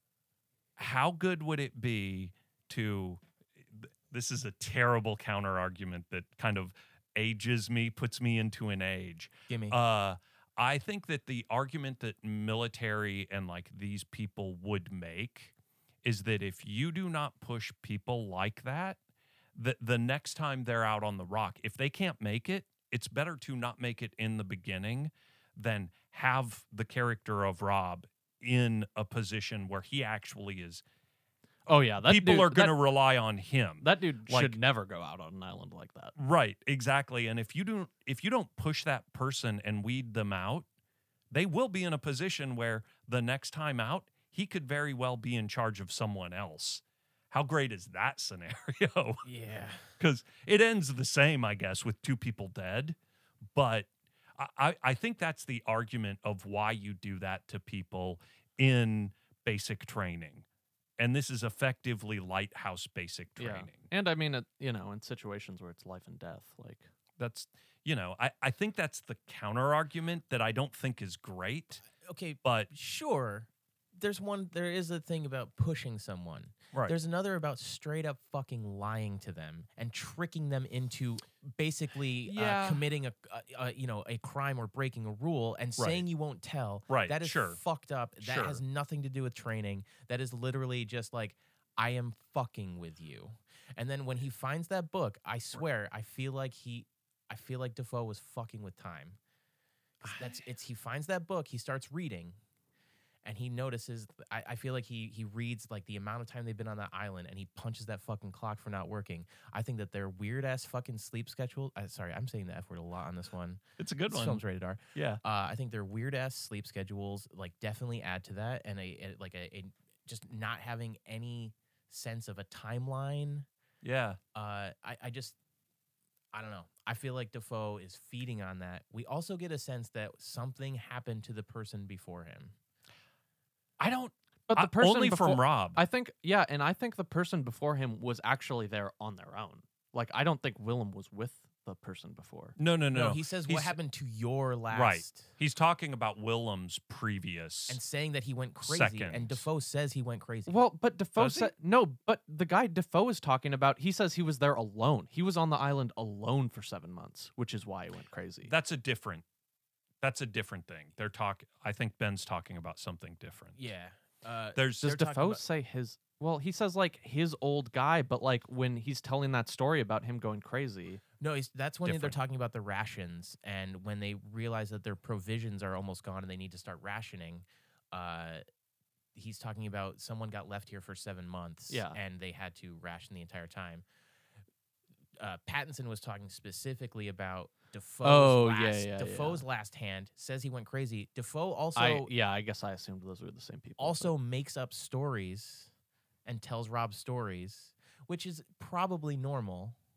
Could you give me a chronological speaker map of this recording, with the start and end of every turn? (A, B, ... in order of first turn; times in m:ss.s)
0:00.8-0:15.5 A
0:09.5-0:09.8 B
0:16.0-0:19.0 A
0:19.5-0:30.8 A
0:31.7-0:32.8 C
0:32.0-0:34.6 A
0:33.8-0:36.1 C
0:36.2-0:40.6 A
0:41.3-0:49.2 A
0:49.2-0:49.9 B
0:50.0-0:53.0 A
0:53.5-1:00.4 A
1:01.0-1:03.9 A
1:03.4-1:06.9 C
1:07.2-1:11.8 A
1:11.9-1:39.2 B
1:12.4-1:12.7 A
1:22.2-1:22.8 A
1:25.8-1:26.0 A
1:26.9-1:27.6 A
1:28.2-1:28.6 A
1:40.0-1:42.4 B
1:43.2-2:03.5 B
1:53.8-1:55.2 A
2:03.8-2:04.2 A
2:04.3-2:05.4 B
2:06.3-2:12.5 B
2:13.8-2:15.8 A
2:14.5-2:22.5 C
2:22.6-2:23.8 A
2:22.9-2:25.3 B
2:24.7-2:27.8 A
2:27.7-2:30.6 B
2:28.6-2:29.4 A
2:30.5-2:38.5 C
2:31.2-2:31.5 A
2:38.4-2:39.2 A
2:40.0-2:43.6 A
2:43.6-2:45.4 B
2:44.6-2:45.0 A
2:44.8-2:51.0 C
2:51.2-2:58.4 B
2:51.8-2:52.2 A
2:59.1-3:03.8 B
3:01.7-3:02.0 C
3:05.2-3:12.1 B
3:08.0-3:09.4 C
3:11.7-3:14.1 C
3:13.8-3:15.7 B
3:16.2-3:19.8 B